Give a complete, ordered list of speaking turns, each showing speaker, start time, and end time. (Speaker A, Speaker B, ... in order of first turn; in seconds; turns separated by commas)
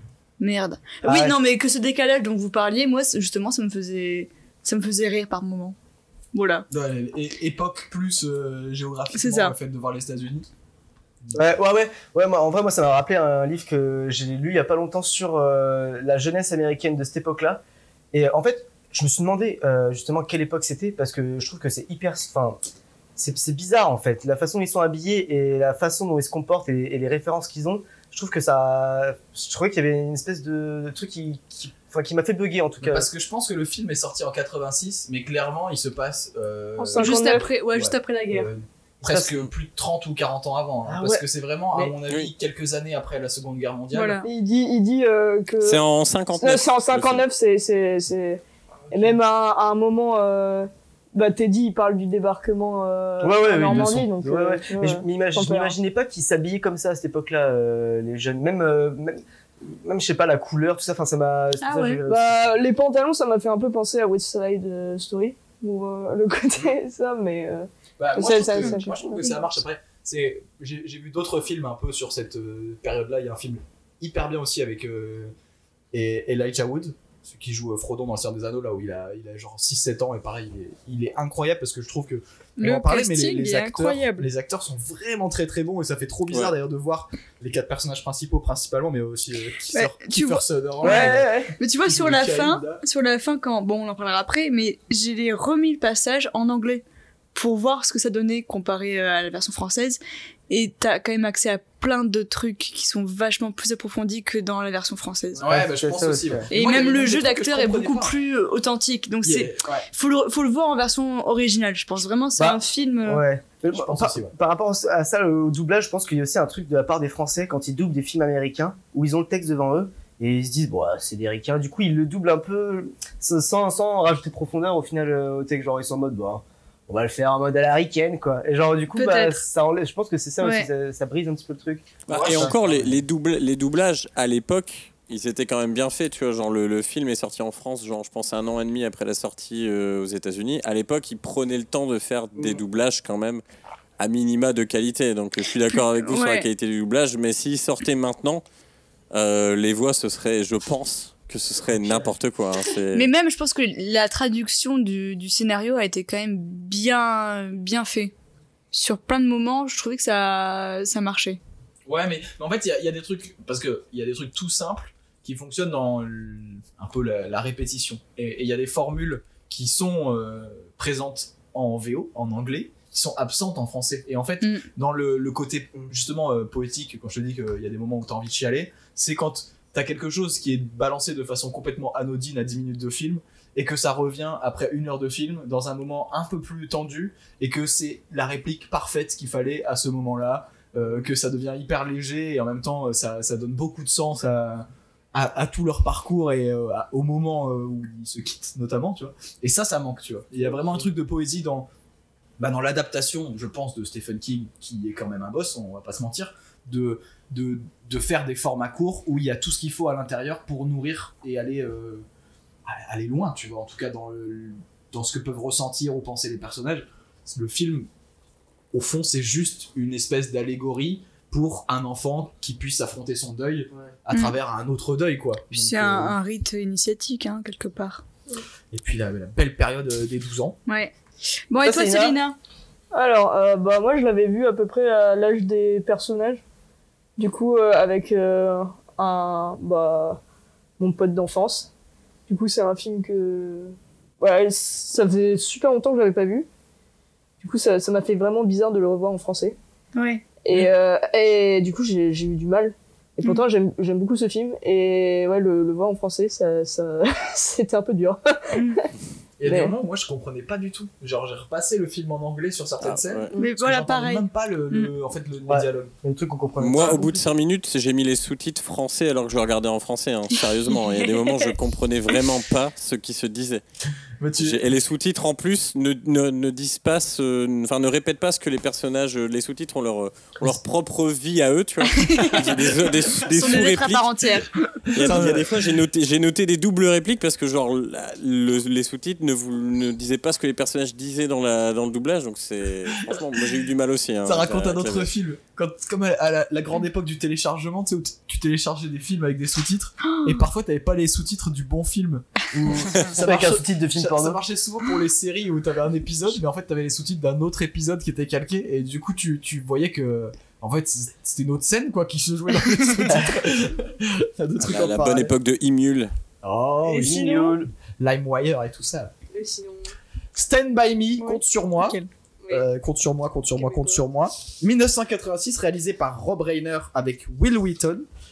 Speaker A: 0.4-5.8, Speaker B: 1.0-1.4, Speaker A: 6.3-6.7, Speaker C: 6.7-10.5, Speaker A: 9.1-9.6, Speaker B: 11.3-22.6, Speaker B: 23.2-33.1, Speaker C: 32.8-44.2, Speaker D: 36.8-37.5, Speaker A: 37.0-38.5, Speaker B: 39.1-39.3, Speaker B: 40.9-41.9, Speaker A: 43.9-44.3, Speaker D: 44.2-45.8, Speaker E: 45.6-47.3, Speaker D: 46.4-55.8, Speaker B: 53.2-62.4, Speaker A: 61.6-62.0, Speaker D: 62.1-69.0, Speaker C: 68.0-75.3, Speaker A: 68.6-69.4, Speaker C: 75.9-92.8, Speaker A: 82.6-84.3, Speaker A: 89.7-96.8, Speaker D: 90.8-91.3, Speaker B: 91.1-91.5, Speaker A: 97.3-105.4, Speaker B: 105.4-106.5, Speaker C: 105.4-108.2, Speaker A: 106.5-113.3, Speaker C: 109.2-109.9, Speaker B: 112.4-132.6, Speaker C: 113.7-114.3, Speaker A: 128.9-129.4, Speaker A: 130.4-130.7, Speaker C: 132.1-133.0, Speaker E: 132.1-143.4, Speaker E: 144.0-148.4, Speaker A: 145.7-146.5, Speaker E: 149.1-153.1, Speaker A: 152.9-158.1, Speaker A: 158.7-161.4, Speaker C: 161.9-201.7, Speaker A: 174.4-174.7, Speaker B: 200.5-200.8, Speaker C: 202.4-212.1, Speaker C: 212.7-217.9, Speaker C: 218.7-226.2, Speaker A: 224.1-224.4, Speaker A: 225.5-228.0, Speaker C: 228.7-230.6, Speaker A: 230.7-230.9, Speaker A: 231.5-232.4, Speaker B: 231.6-232.2, Speaker D: 232.9-236.4, Speaker D: 237.2-240.2, Speaker D: 240.8-241.7, Speaker D: 242.3-246.5, Speaker D: 247.4-249.6, Speaker A: 249.9-250.2, Speaker D: 250.4-258.9, Speaker A: 258.5-258.8, Speaker C: 259.4-265.9, Speaker D: 259.5-259.7, Speaker E: 262.8-263.3, Speaker A: 263.4-264.9, Speaker B: 265.5-267.2, Speaker E: 266.6-273.6, Speaker A: 270.8-271.5, Speaker C: 274.2-274.6, Speaker E: 274.4-284.1, Speaker A: 281.9-282.6, Speaker A: 283.3-285.0, Speaker E: 284.9-295.1, Speaker C: 284.9-285.7, Speaker C: 294.2-315.3, Speaker A: 300.1-300.4, Speaker B: 302.5-304.4, Speaker B: 313.1-313.4, Speaker E: 314.6-316.1, Speaker C: 316.4-319.1, Speaker B: 316.9-317.7, Speaker D: 317.0-317.4, Speaker D: 319.3-319.9, Speaker C: 320.4-322.0, Speaker A: 321.2-322.1, Speaker C: 322.5-328.1, Speaker D: 323.6-324.1